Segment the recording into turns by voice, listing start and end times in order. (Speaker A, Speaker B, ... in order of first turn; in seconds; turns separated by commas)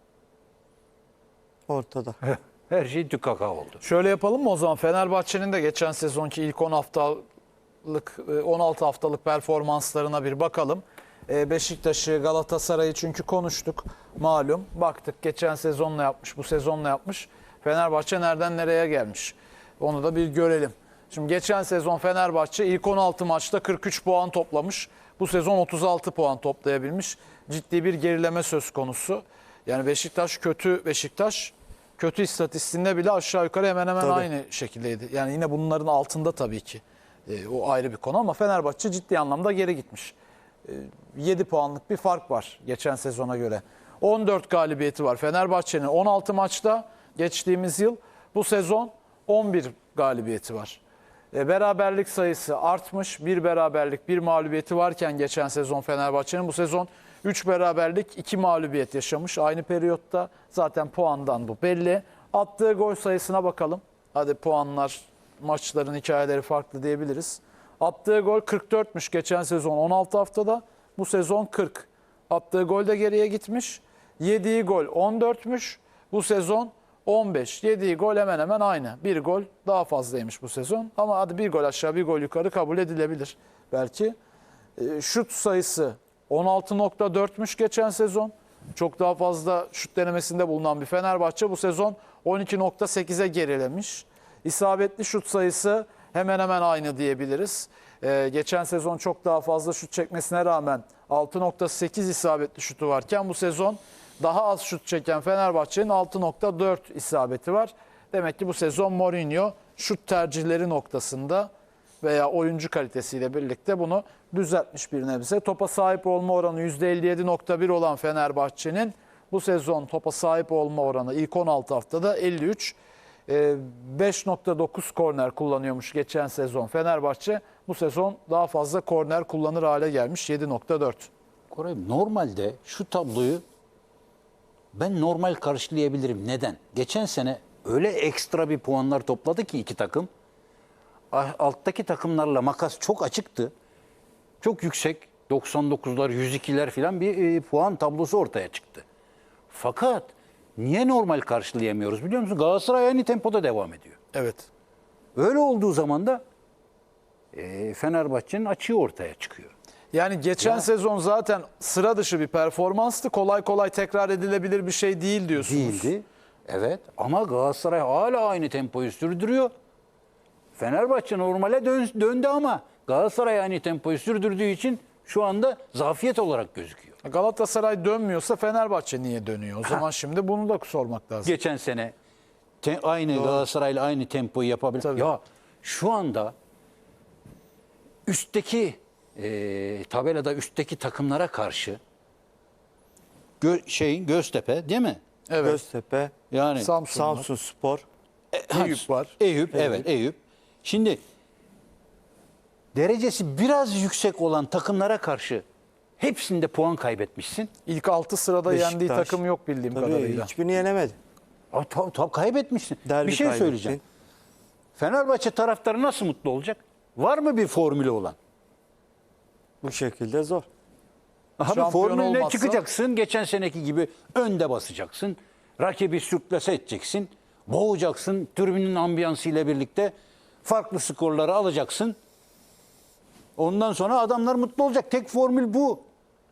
Speaker A: 1.7-2.2, Speaker B: 2.2-3.8, Speaker C: 3.8-7.2, Speaker C: 7.8-50.8, Speaker A: 34.0-34.3, Speaker C: 51.3-84.2, Speaker C: 84.8-111.5, Speaker C: 112.0-131.1, Speaker B: 131.5-133.4, Speaker B: 134.7-140.1, Speaker B: 141.1-143.5, Speaker B: 144.4-148.8, Speaker B: 149.5-154.0, Speaker C: 154.1-154.5, Speaker B: 155.2-156.2, Speaker B: 157.3-159.5, Speaker C: 159.9-165.9, Speaker B: 160.4-160.7, Speaker B: 165.3-169.5, Speaker B: 170.6-177.0, Speaker C: 177.0-181.3, Speaker B: 181.2-181.9, Speaker B: 182.6-186.3, Speaker A: 183.1-183.4, Speaker B: 188.1-191.8, Speaker B: 193.4-195.0, Speaker C: 195.3-195.6, Speaker A: 195.4-196.2, Speaker B: 196.3-196.7, Speaker C: 196.6-197.3, Speaker A: 196.9-197.8, Speaker B: 198.3-201.0, Speaker C: 198.5-199.1, Speaker A: 199.5-199.9, Speaker B: 202.8-205.4, Speaker B: 206.0-207.5, Speaker C: 207.7-210.3, Speaker A: 208.5-209.2, Speaker A: 209.7-211.0, Speaker B: 211.5-213.8, Speaker A: 212.8-213.8, Speaker B: 214.8-218.2, Speaker A: 219.6-220.5, Speaker B: 221.4-229.9, Speaker C: 221.4-222.6, Speaker B: 230.4-232.0, Speaker B: 233.4-235.8